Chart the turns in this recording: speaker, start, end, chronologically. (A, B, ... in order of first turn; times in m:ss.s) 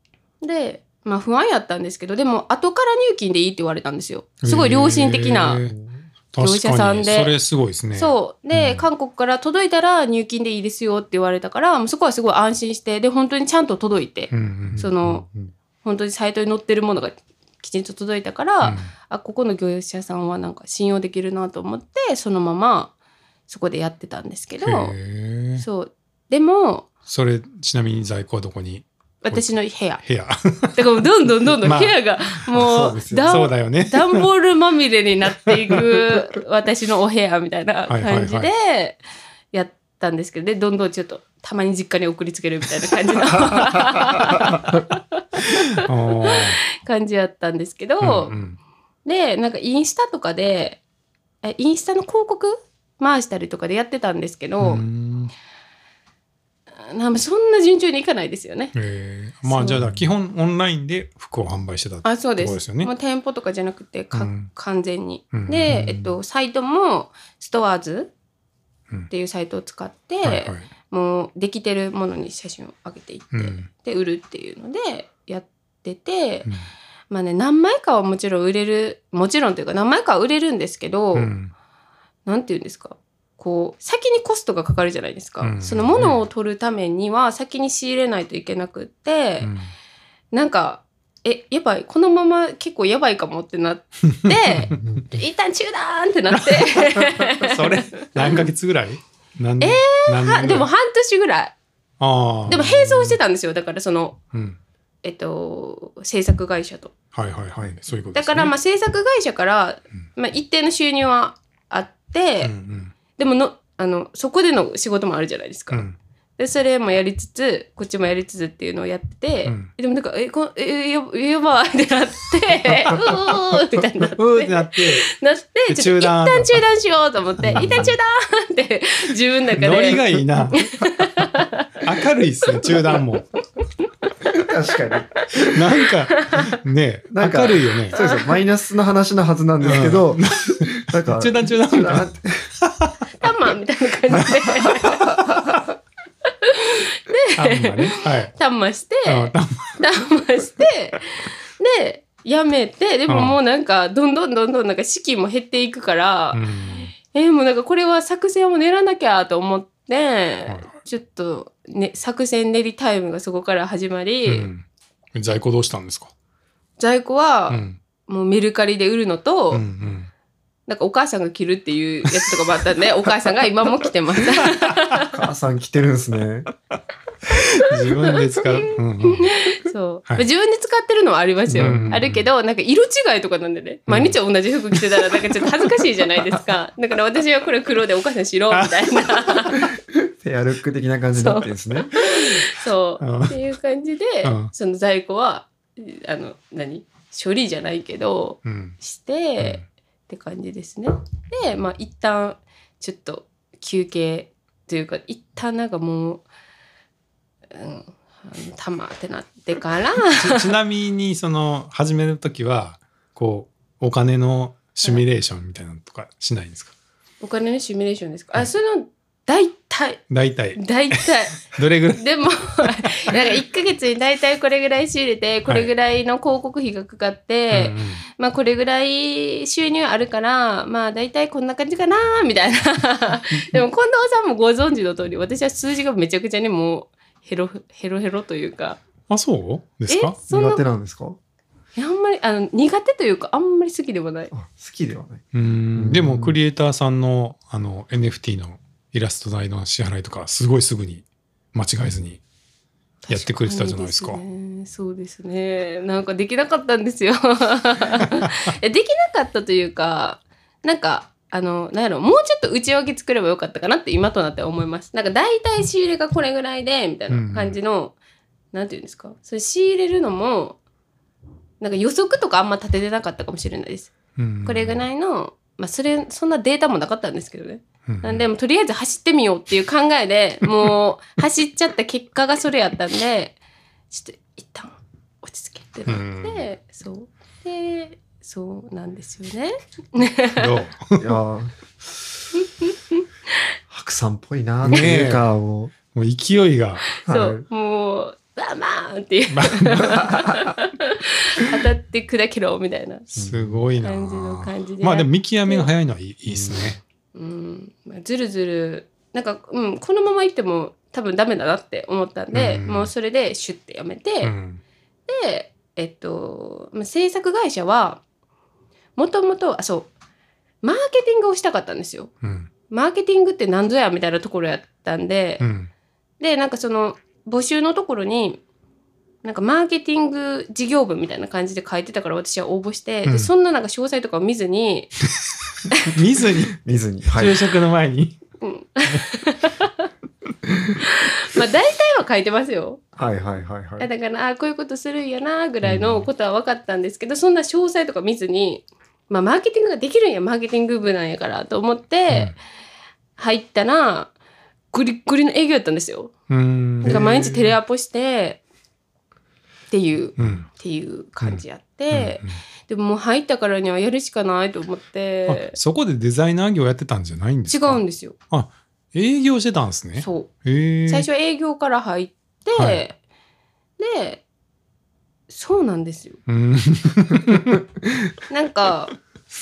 0:00.4-0:05.6 A
0:04.4-0:05.8 B
0:05.6-0:06.0 C
0:06.3-0:08.7 B
0:06.4-0:07.3 A
0:07.9-0:15.2 A
0:14.3-0:14.8 B
0:14.7-0:15.5 C
0:15.8-0:22.9 A
0:18.6-0:18.9 B
0:23.5-0:25.0 A
0:24.6-0:25.6 B
0:25.6-0:26.9 A
0:27.0-0:30.8 B
0:29.2-0:30.0 A
0:30.7-0:39.0 A
0:31.6-0:32.0 B
0:32.5-0:33.5 C
0:33.2-0:34.2 B
0:37.9-0:38.5 B
0:39.5-0:48.3 A
0:45.8-0:46.6 B
0:48.0-0:48.6 B
0:49.0-0:50.8 A
0:51.4-0:54.8 A
0:54.6-0:55.3 B
0:56.8-0:58.7 A
0:58.7-1:02.9 B
0:59.5-0:59.8 A
1:02.0-1:08.1 A
1:04.1-1:04.5 B
1:05.3-1:06.1 B
1:09.1-1:16.5 A
1:10.2-1:10.6 B
1:13.3-1:13.7 B
1:17.1-1:21.3 A
1:21.1-1:21.5 B
1:22.2-1:29.5 A
1:25.4-1:26.2 B
1:29.4-1:29.7 B
1:30.3-1:38.4 A
1:34.1-1:34.8 B
1:34.7-1:35.1 C
1:36.3-1:40.7 B
1:39.6-1:41.5 A
1:42.0-1:43.2 B
1:42.5-1:44.2 A
1:44.3-1:44.6 B
1:45.0-1:46.9 A
1:47.1-1:48.5 B
1:48.1-1:52.5 A
1:52.4-1:52.9 B
1:53.2-1:55.8 A
1:55.7-1:56.0 B
1:56.4-2:11.8 A
2:04.2-2:05.1 B
2:05.7-2:06.6 B
2:07.4-2:07.9 B
2:07.4-2:08.0 C
2:09.6-2:10.7 B
2:11.8-2:13.3 B
2:12.6-2:13.0 A
2:13.8-2:14.1 A
2:14.3-2:15.6 C
2:15.5-2:18.0 B
2:16.1-2:16.5 A
2:17.1-2:22.5 C
2:17.9-2:18.4 A
2:19.6-2:22.1 B
2:22.6-2:22.9 B
2:23.2-2:25.1 A
2:24.8-2:25.4 C
2:26.2-2:44.5 A
2:27.4-2:28.3 B
2:29.0-2:29.8 B
2:33.1-2:33.4 B
2:36.3-2:36.9 B
2:40.5-2:40.7 B
2:44.2-2:44.6 B
2:45.1-2:46.1 B
2:46.8-2:49.6 A
2:47.5-2:47.8 B
2:49.5-2:50.1 B
2:50.7-2:55.1 A
2:55.0-2:56.5 C
2:57.6-2:59.5 B
2:57.6-3:09.6 A
3:01.5-3:02.0 C
3:01.5-3:02.2 B
3:03.9-3:04.2 B
3:08.5-3:09.2 B
3:09.6-3:11.9 C
3:11.1-3:26.2 A
3:13.0-3:13.4 B
3:14.2-3:14.5 B
3:18.4-3:18.8 B
3:27.5-3:30.5 A
3:30.1-3:36.7 B
3:37.2-3:40.0 A
3:40.1-3:43.2 B
3:40.6-3:58.8 A
3:47.5-3:48.0 B
3:59.1-4:00.2 B
3:59.9-4:00.6 A
4:00.3-4:01.2 C
4:01.8-4:04.3 A
4:04.3-4:05.2 C
4:05.3-4:12.2 B
4:05.7-4:06.4 C
4:13.0-4:27.9 A
4:13.1-4:14.2 B
4:27.1-4:27.6 B
4:28.5-4:30.6 A
4:31.6-4:33.9 A
4:34.2-4:34.8 B
4:34.4-4:43.4 A
4:37.8-4:38.2 B
4:43.9-4:50.6 A
4:45.9-4:46.4 B
4:50.4-4:51.2 B
4:51.0-4:52.1 C
4:52.6-4:53.0 A
4:53.7-4:55.7 C
4:54.6-4:55.3 B
4:55.9-4:56.8 B
4:56.9-5:03.1 A
4:57.0-4:57.4 C
4:59.3-5:00.2 B
5:03.1-5:03.6 C
5:03.2-5:06.8 B
5:03.8-5:05.7 A
5:06.3-5:06.8 C
5:07.1-5:14.3 A
5:12.3-5:12.9 B
5:14.2-5:14.6 B
5:15.1-5:18.0 A
5:19.0-5:19.9 A
5:20.6-5:22.1 A
5:22.2-5:22.5 B
5:22.7-5:25.4 A
5:25.4-5:25.7 B
5:26.2-5:28.4 A
5:29.2-5:34.9 A
5:33.0-5:33.3 B
5:35.8-5:36.6 B
5:36.5-5:37.4 C
5:37.1-5:38.2 B
5:38.4-5:39.9 A
5:40.8-5:42.8 A
5:43.0-5:43.9 C
5:43.8-5:52.3 A
5:45.6-5:46.0 C
5:53.2-5:54.1 A
5:54.7-5:56.1 A
5:56.3-5:57.4 B
5:56.8-5:58.4 A
5:56.8-5:57.3 C
5:59.7-6:05.6 A
6:00.2-6:00.5 B
6:01.2-6:02.4 B
6:05.3-6:11.1 B
6:07.5-6:08.2 A
6:10.0-6:10.3 A
6:10.9-6:13.0 A
6:12.6-6:12.8 B
6:13.8-6:14.2 A
6:15.3-6:16.2 A
6:16.3-6:17.6 B
6:18.3-6:18.9 A